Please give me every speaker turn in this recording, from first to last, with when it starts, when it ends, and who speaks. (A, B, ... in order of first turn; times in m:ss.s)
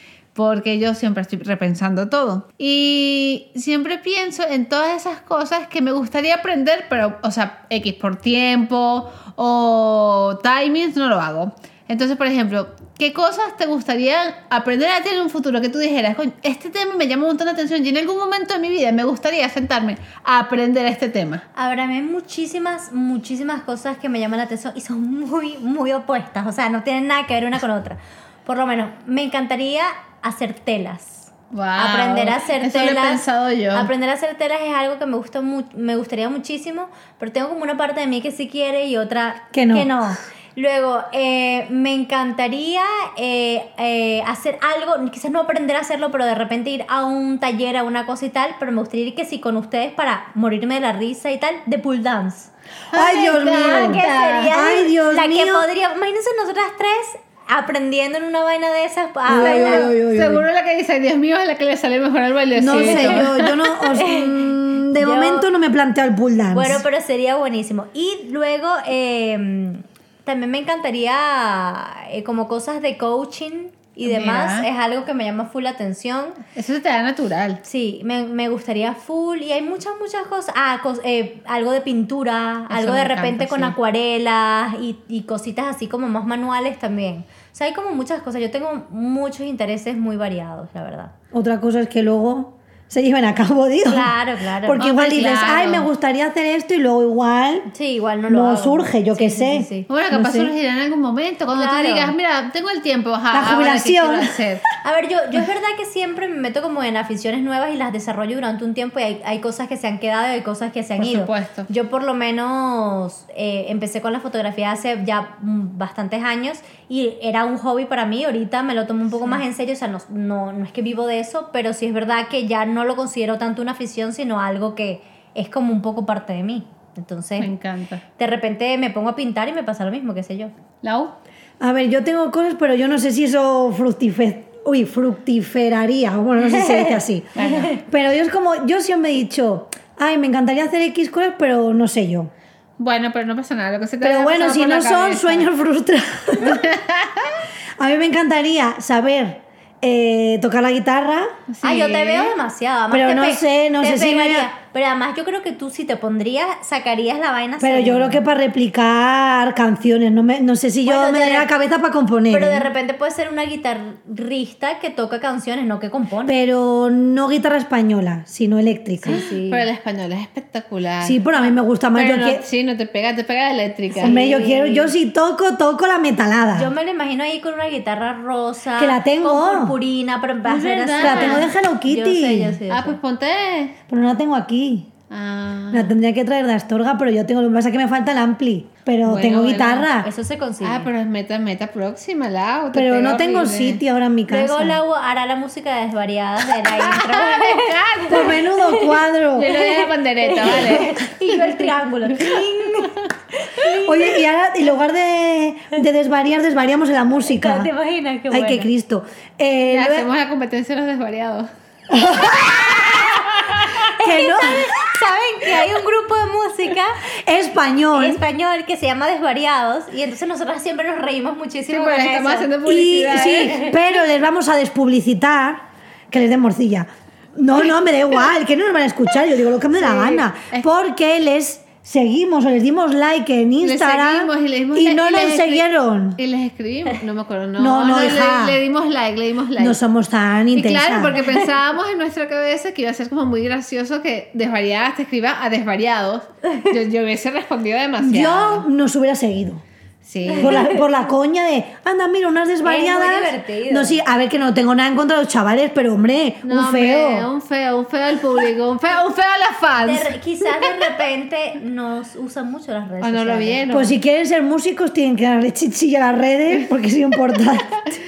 0:00.3-0:21.4 A
0:21.6-0:33.2 B
0:31.5-0:33.9 A
0:33.7-0:52.5 B
0:39.5-0:39.9 C
0:52.9-0:54.6 A
0:52.9-0:55.6 C
0:53.6-0:59.9 B
0:59.3-1:00.4 C
0:59.3-1:03.6 A
1:02.6-1:06.8 C
1:02.6-1:05.5 B
1:06.5-1:16.4 B
1:14.0-1:14.6 A
1:16.6-1:17.6 A
1:17.6-1:31.1 B
1:22.7-1:23.7 A
1:31.3-1:37.7 C
1:33.9-1:34.8 B
1:34.8-1:35.9 A
1:37.7-1:39.9 B
1:38.3-1:40.5 C
1:39.9-1:44.6 A
1:41.5-1:42.1 B
1:43.3-1:44.3 C
1:44.8-2:07.5 B
1:51.0-1:51.7 A
2:07.4-2:08.0 A
2:08.2-2:10.5 B
2:10.8-2:11.1 A
2:11.6-2:22.3 C
2:17.4-2:17.7 A
2:17.4-2:17.8 B
2:22.8-2:25.5 A
2:24.0-2:26.7 C
2:26.4-2:27.4 A
2:27.8-2:31.3 C
2:31.5-2:32.3 A
2:31.6-2:38.2 B
2:32.9-2:34.5 C
2:37.6-2:42.7 C
2:40.8-2:41.5 B
2:42.3-2:46.4 B
2:46.2-2:49.2 C
2:49.0-2:49.6 B
2:49.1-2:51.2 A
2:51.0-2:52.4 C
2:51.9-2:54.6 A
2:53.9-2:54.9 B
2:54.0-2:56.7 C
2:56.5-3:03.0 B
2:58.8-2:59.8 C
3:00.4-3:01.5 A
3:01.0-3:02.6 C
3:02.7-3:03.8 A
3:03.9-3:04.9 C
3:05.1-3:05.9 A
3:05.7-3:10.1 C
3:09.0-3:09.9 A
3:10.0-3:10.9 B
3:10.6-3:13.8 A
3:12.7-3:14.8 C
3:14.3-3:24.2 B
3:16.6-3:18.4 A
3:18.1-3:19.5 C
3:19.3-3:23.1 A
3:23.8-3:27.7 C
3:27.2-3:28.7 B
3:28.3-3:30.1 C
3:29.7-3:31.5 A
3:31.9-3:33.2 C
3:33.4-3:33.7 A
3:34.0-3:37.0 B
3:34.0-3:34.9 C
3:37.1-3:38.2 C
3:37.9-3:42.5 B
3:41.7-3:43.8 A
3:42.6-3:56.2 C
3:49.7-3:50.7 A
3:53.6-3:59.8 A
3:57.6-3:58.6 C
3:59.6-4:01.2 C
4:00.5-4:08.6 A
4:08.0-4:09.6 C
4:10.0-4:10.8 A
4:10.3-4:17.3 C
4:12.6-4:14.0 B
4:16.4-4:20.9 A
4:19.8-4:23.6 B
4:23.0-4:23.9 A
4:23.7-4:27.9 C